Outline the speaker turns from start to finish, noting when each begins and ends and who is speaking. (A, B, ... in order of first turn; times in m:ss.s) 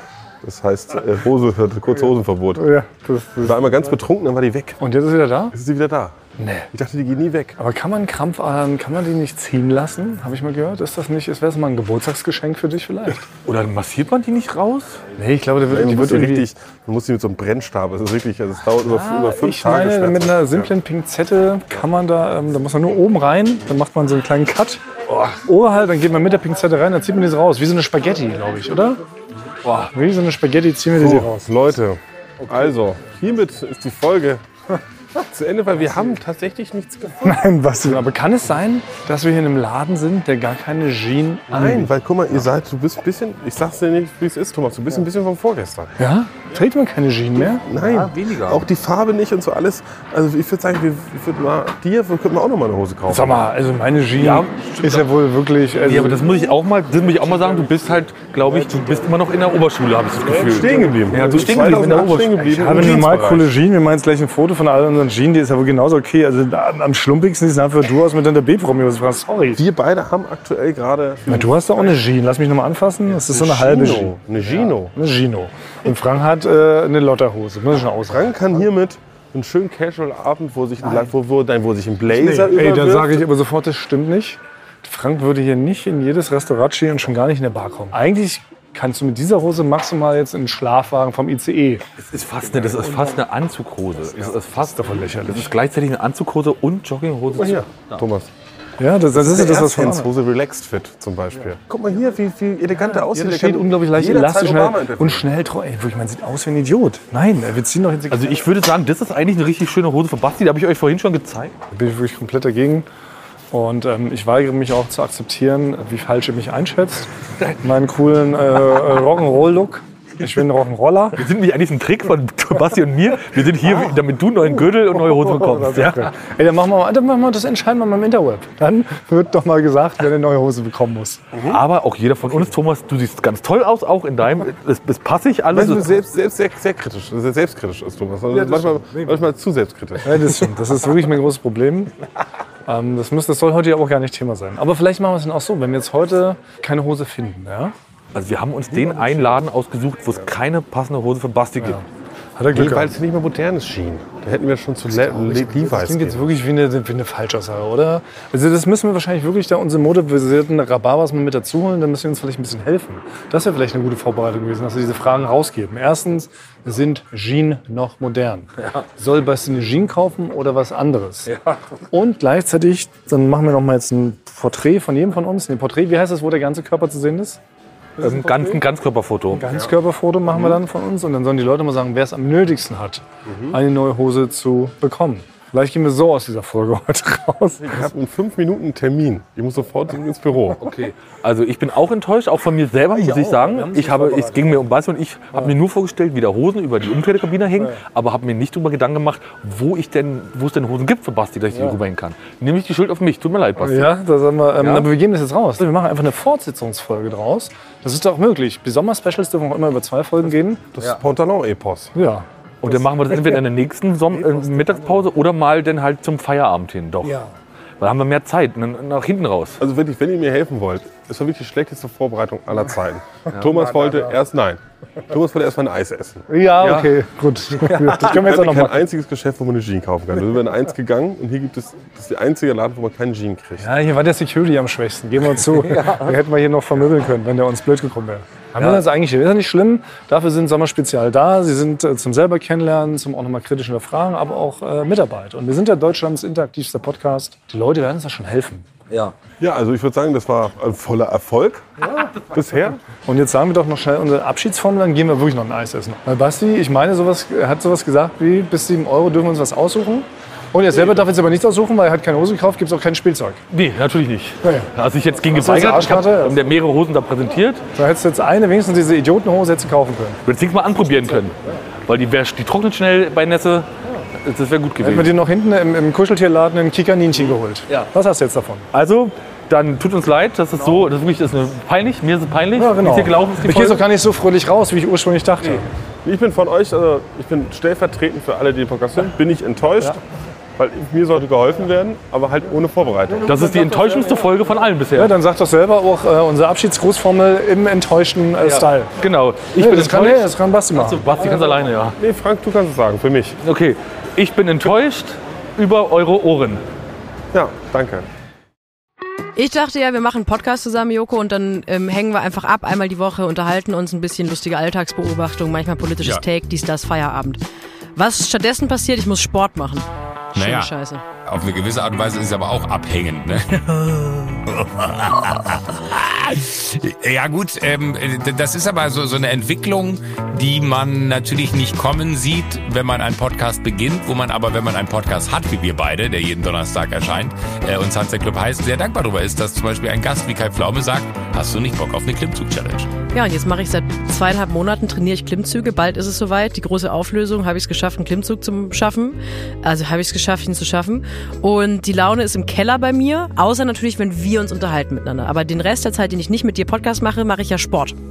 0:00.4-0:02.6 A
0:02.5-0:03.6 B
0:03.4-0:04.8 A
0:04.8-0:05.5 B
0:05.5-0:06.2 A
0:06.4-0:06.7 B
0:06.7-0:07.6 A
0:07.6-0:13.2 B
0:13.4-0:15.0 C
0:15.2-0:16.4 B
0:15.7-0:20.7 A
0:18.9-0:24.8 B
0:25.1-0:25.4 C
0:25.4-0:29.0 B
0:29.6-0:29.9 C
0:29.9-0:31.5 B
0:30.9-0:34.4 A
0:35.3-0:37.2 A
0:37.2-0:41.9 B
0:41.5-0:46.0 A
0:46.0-0:47.6 B
0:47.6-0:53.4 A
0:47.7-0:48.6 C
0:53.1-0:56.2 B
0:54.2-0:55.0 C
0:55.8-1:02.6 C
1:00.4-1:03.5 A
1:01.1-1:01.9 B
1:02.5-1:09.6 B
1:09.5-1:11.5 A
1:11.3-1:14.2 B
1:13.3-1:14.9 A
1:14.9-1:18.3 B
1:18.1-1:23.2 A
1:22.1-1:31.8 B
1:32.0-1:38.0 C
1:34.5-1:35.5 B
1:37.4-1:38.3 A
1:38.8-1:40.1 B
1:39.1-1:45.2 A
1:42.8-1:48.4 B
1:48.1-1:51.5 C
1:51.7-1:52.9 B
1:53.5-1:57.1 B
1:57.6-2:01.2 B
2:01.2-2:06.1 C
2:05.0-2:11.2 B
2:11.3-2:11.6 A
2:11.4-2:15.9 C
2:15.5-2:20.1 A
2:20.0-2:21.9 B
2:22.7-2:27.7 B
2:28.1-2:31.8 C
2:32.4-2:32.9 B
2:32.5-2:36.3 A
2:34.9-2:51.3 B
2:51.3-2:51.6 C
2:51.9-2:57.4 B
2:58.0-2:58.6 B
2:58.0-2:59.4 C
2:59.3-3:07.8 B
3:03.2-3:03.6 A
3:07.6-3:10.6 A
3:10.6-3:23.9 C
3:12.9-3:14.5 B
3:23.6-3:30.6 B
3:24.6-3:24.9 C
3:30.7-3:31.9 A
3:31.9-3:32.2 B
3:32.6-3:37.2 C
3:37.0-3:37.3 B
3:37.8-3:39.6 C
3:39.6-3:46.2 A
3:46.3-3:48.8 B
3:46.6-3:46.9 C
3:47.6-3:48.0 C
3:48.0-3:53.7 A
3:53.6-4:08.7 B
3:55.7-3:56.0 C
3:58.6-3:58.8 C
4:08.9-4:09.1 C
4:09.4-4:12.8 A
4:13.0-4:23.4 B
4:23.5-4:27.6 C
4:24.4-4:24.7 B
4:25.3-4:26.4 B
4:27.8-4:30.2 B
4:30.2-4:35.1 C
4:34.8-4:38.7 B
4:38.7-4:43.8 C
4:42.6-4:45.7 B
4:46.0-4:50.0 A
4:50.6-4:53.4 A
4:53.2-4:55.1 C
4:54.9-4:58.9 B
4:58.4-5:02.0 C
4:59.6-5:01.0 B
5:02.0-5:03.4 A
5:03.4-5:06.6 C
5:07.3-5:08.0 A
5:09.3-5:17.4 D
5:17.9-5:21.0 D
5:20.4-5:20.7 E
5:21.2-5:42.9 E
5:43.1-5:58.0 D